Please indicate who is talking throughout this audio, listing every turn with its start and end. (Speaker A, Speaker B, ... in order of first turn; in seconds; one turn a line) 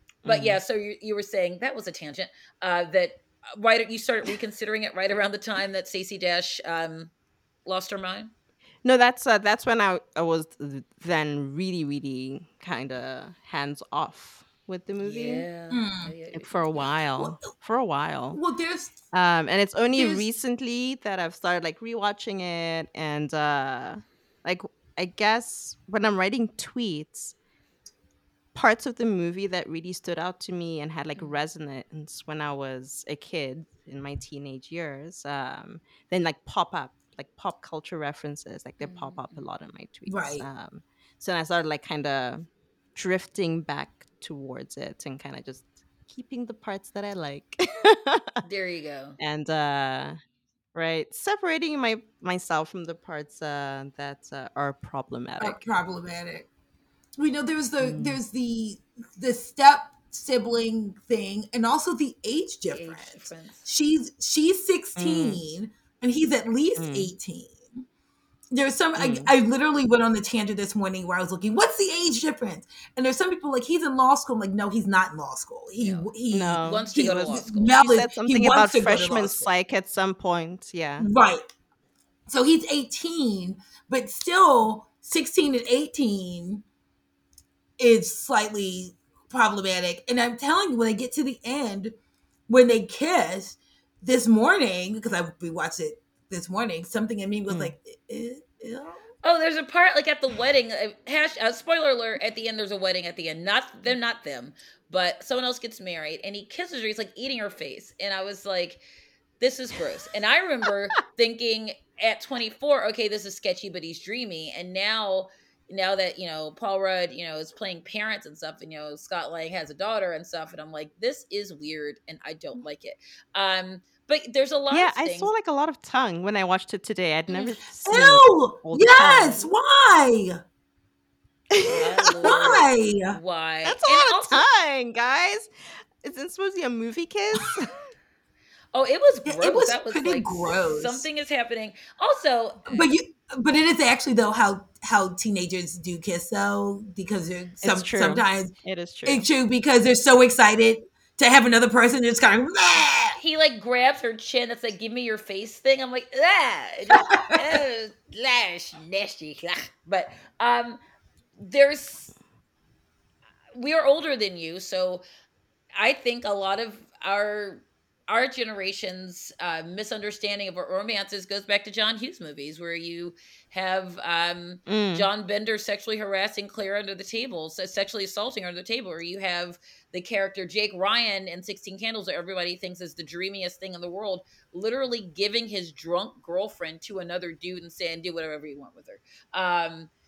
Speaker A: 0.2-0.6
Speaker B: 0.2-7.1
Speaker B: 7.7-8.3
Speaker A: 8.8-15.4
Speaker B: 15.0-16.9
Speaker C: 15.7-16.1
Speaker A: 16.3-18.4
Speaker C: 17.2-17.5
Speaker C: 18.3-19.0
Speaker A: 19.1-27.3
Speaker C: 19.9-20.2
Speaker A: 28.5-48.4
Speaker B: 38.8-39.4
Speaker C: 40.1-40.5
Speaker B: 48.4-49.2
Speaker A: 49.2-50.2
Speaker A: 50.7-55.6
Speaker C: 55.4-56.5
Speaker C: 57.2-67.8
Speaker A: 57.8-58.2
Speaker B: 62.7-63.7
Speaker A: 65.0-65.4
Speaker A: 66.8-67.1
Speaker C: 68.5-79.5
Speaker A: 69.0-69.3
Speaker B: 75.8-76.1
Speaker A: 76.3-81.1
Speaker B: 76.6-78.0
Speaker C: 81.0-81.4
Speaker C: 82.3-86.6
Speaker C: 87.8-91.9
Speaker C: 92.5-99.0
Speaker A: 97.5-97.7
Speaker B: 99.2-108.8
Speaker B: 109.4-125.3
Speaker A: 124.7-129.5
Speaker B: 127.3-127.6
Speaker C: 127.8-130.4
Speaker A: 131.5-132.6
Speaker B: 131.7-134.4
Speaker C: 132.2-133.2
Speaker A: 133.6-135.5
Speaker A: 136.0-137.9
Speaker B: 138.7-142.9
Speaker C: 139.2-141.1
Speaker C: 142.7-148.5
Speaker A: 147.6-149.2
Speaker C: 149.1-153.2
Speaker B: 153.2-160.8
Speaker C: 156.9-157.6
Speaker B: 161.4-162.1
Speaker B: 163.5-165.0
Speaker B: 165.7-189.9
Speaker A: 174.7-175.1